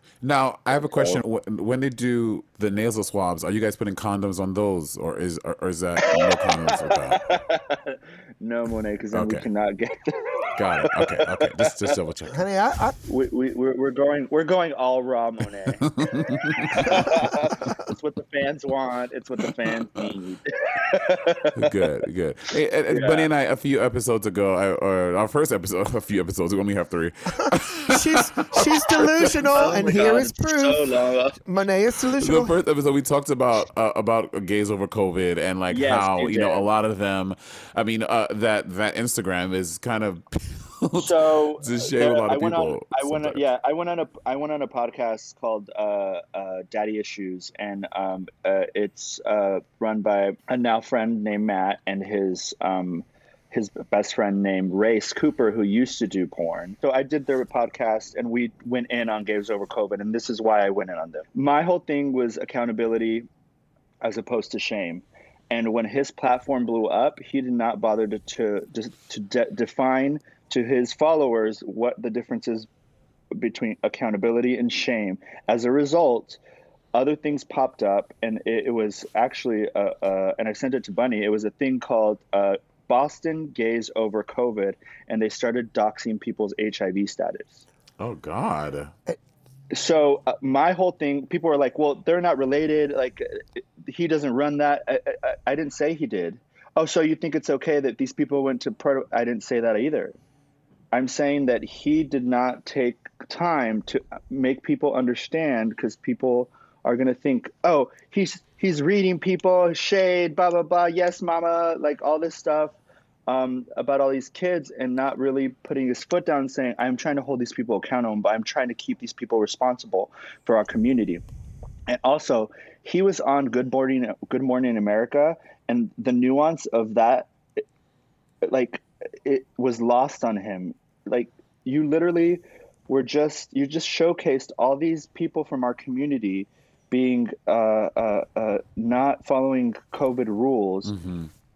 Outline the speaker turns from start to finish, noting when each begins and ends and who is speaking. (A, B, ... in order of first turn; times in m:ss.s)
0:00.2-0:07.2 A
0:00.7-0:01.2 B
0:06.0-0:11.9 B
0:09.1-0:09.5 A
0:10.6-0:12.4 A
0:12.3-0:13.0 C
0:13.1-0:15.9 B
0:15.8-0:17.2 A
0:16.7-0:21.8 B
0:21.6-0:29.5 A
0:22.9-0:23.3 B
0:27.4-0:30.8 C
0:29.6-0:31.4 B
0:31.4-0:32.6 C
0:32.2-0:43.4 A
0:35.7-0:36.7 B
0:41.0-1:03.3 B
1:04.0-1:12.7 B
1:13.4-1:16.4 B
1:16.9-1:27.6 B
1:28.0-1:28.9 A
1:29.7-1:40.2 B
1:40.9-2:01.2 B
2:01.9-2:07.3 B
2:08.4-2:20.9 B
2:20.8-2:21.3 A